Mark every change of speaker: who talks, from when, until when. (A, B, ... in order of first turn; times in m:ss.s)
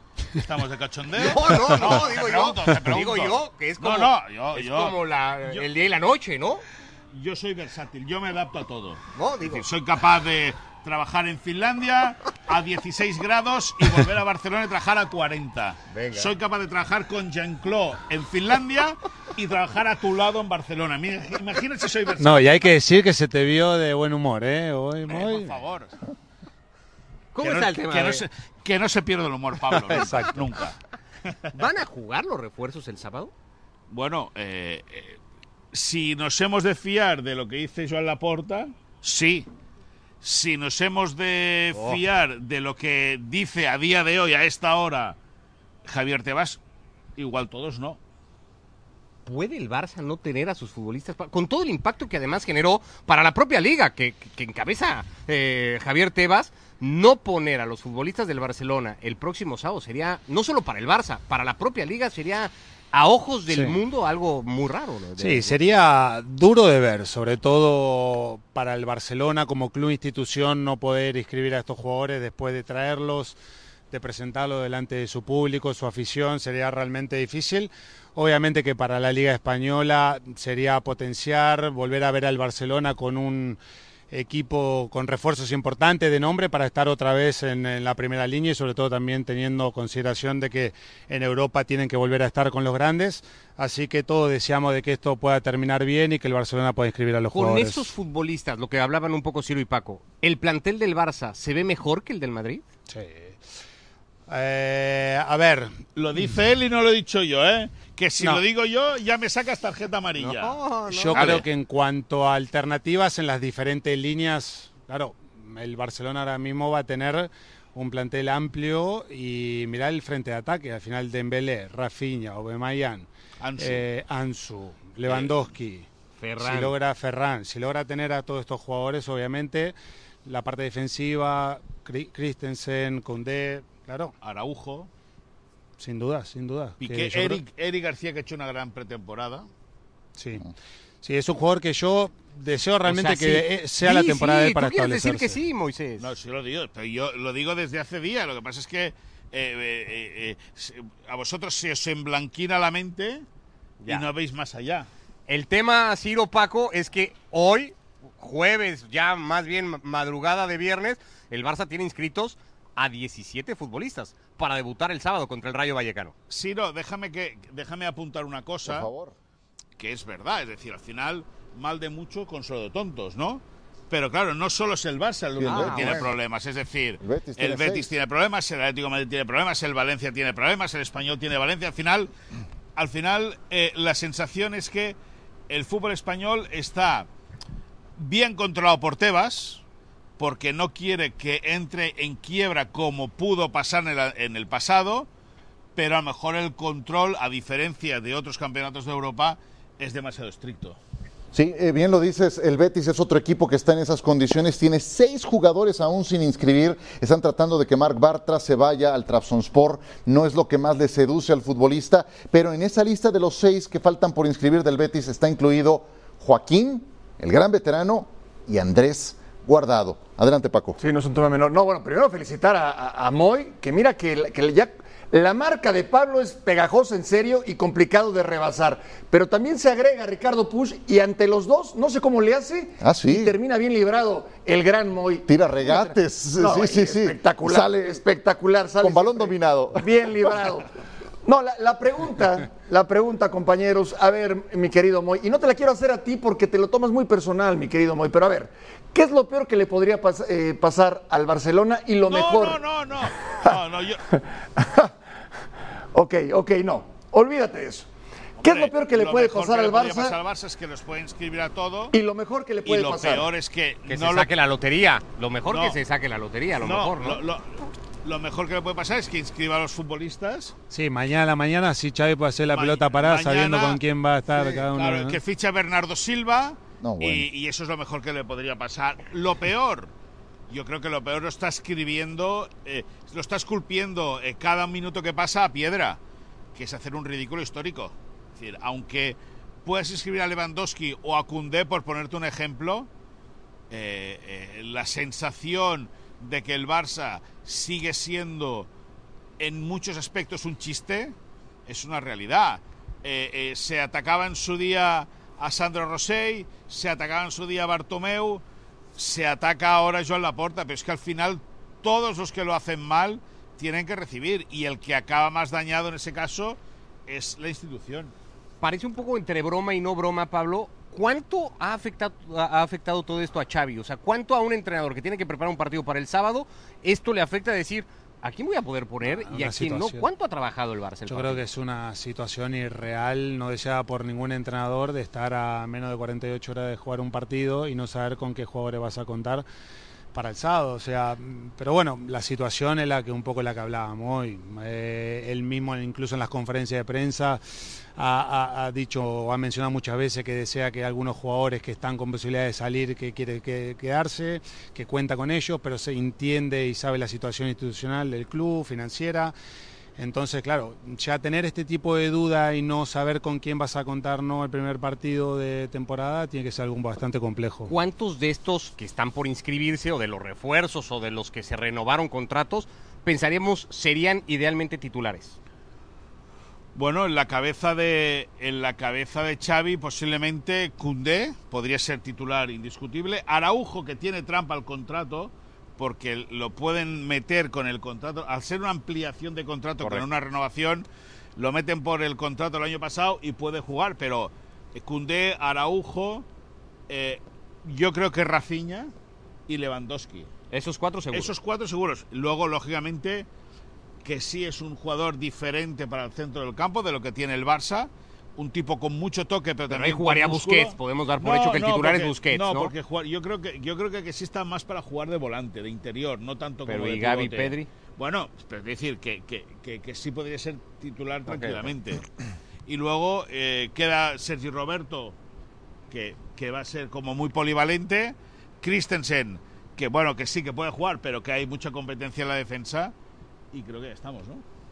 0:00.3-0:05.6 A
0:01.1-0:06.6 B
0:07.1-0:22.6 A
0:09.1-0:09.7 B
0:15.9-0:16.3 B
0:22.2-0:25.6 C
0:25.1-0:25.9 A
0:27.3-0:28.2 B
0:27.4-0:30.8 A
0:29.7-0:30.3 B
0:29.9-0:30.3 C
0:31.5-0:33.3 B
0:33.9-0:35.2 A
0:35.7-0:39.5 A
0:40.2-0:45.2 A
0:41.7-0:42.0 B
0:45.8-0:46.6 A
0:47.2-0:48.0 A
0:49.2-1:05.5 B
1:03.5-1:03.8 C
1:05.2-1:13.4 C
1:13.9-1:23.6 C
1:24.1-1:37.8 C
1:37.3-1:42.6 B
1:42.9-1:43.4 C
1:44.3-1:45.8 C
1:46.0-1:50.6 A
1:50.2-1:51.5 B
1:50.9-2:05.9 C
1:51.1-1:51.4 A
2:03.4-2:03.8 A
2:06.2-2:06.7 B
2:06.4-2:14.1 C
2:14.2-2:14.9 A
2:15.8-2:17.4 C
2:16.8-2:19.5 A
2:20.2-2:20.5 C
2:21.0-2:25.4 C
2:22.8-2:26.1 B
2:26.0-2:33.2 A
2:33.9-2:34.9 A
2:35.3-2:46.1 B
2:46.3-2:48.9 A
2:48.6-2:49.1 D
2:49.8-3:02.1 A
2:55.4-2:56.1 D
2:55.4-2:56.1 B
2:57.0-2:57.9 D
3:02.8-3:05.0 A
3:05.5-3:07.1 A
3:08.0-3:09.6 A
3:10.2-3:15.1 A
3:15.8-3:20.8 A
3:21.3-3:40.8 D
3:40.8-4:00.7 E
3:52.8-3:53.4 D
3:55.3-3:58.0 D
3:58.8-4:00.3 D
4:01.2-4:12.6 E
4:12.1-4:14.0 A
4:14.1-4:14.9 E
4:15.9-4:17.9 E
4:18.4-4:20.2 E
4:18.4-4:21.9 A
4:21.9-4:23.3 E
4:22.6-4:24.3 A
4:23.8-4:27.2 B
4:25.5-4:25.8 A
4:26.6-4:30.5 A
4:30.7-4:35.2 C
4:32.5-4:33.8 A
4:34.3-4:39.9 A
4:36.8-4:37.3 D
4:40.5-4:46.0 A
4:46.5-4:52.9 A
4:53.7-4:58.7 A
4:59.4-5:01.2 A
5:01.7-5:08.4 A
5:08.9-5:18.1 A
5:18.6-5:31.4 B
5:29.2-5:30.0 C
5:31.1-5:39.4 C
5:40.1-5:47.4 C
5:48.0-5:59.3 C
6:00.0-6:07.7 C
6:07.7-6:15.4 B
6:16.7-6:36.2 A
6:36.9-6:38.9 A
6:39.5-6:40.3 A
6:40.5-6:41.3 B
6:41.1-6:43.3 A
6:44.0-7:02.0 A
6:49.7-6:52.7 B
6:56.6-6:57.7 B
7:01.2-7:01.7 B
7:02.6-7:05.2 A
7:05.9-7:12.9 A
7:13.5-7:14.4 A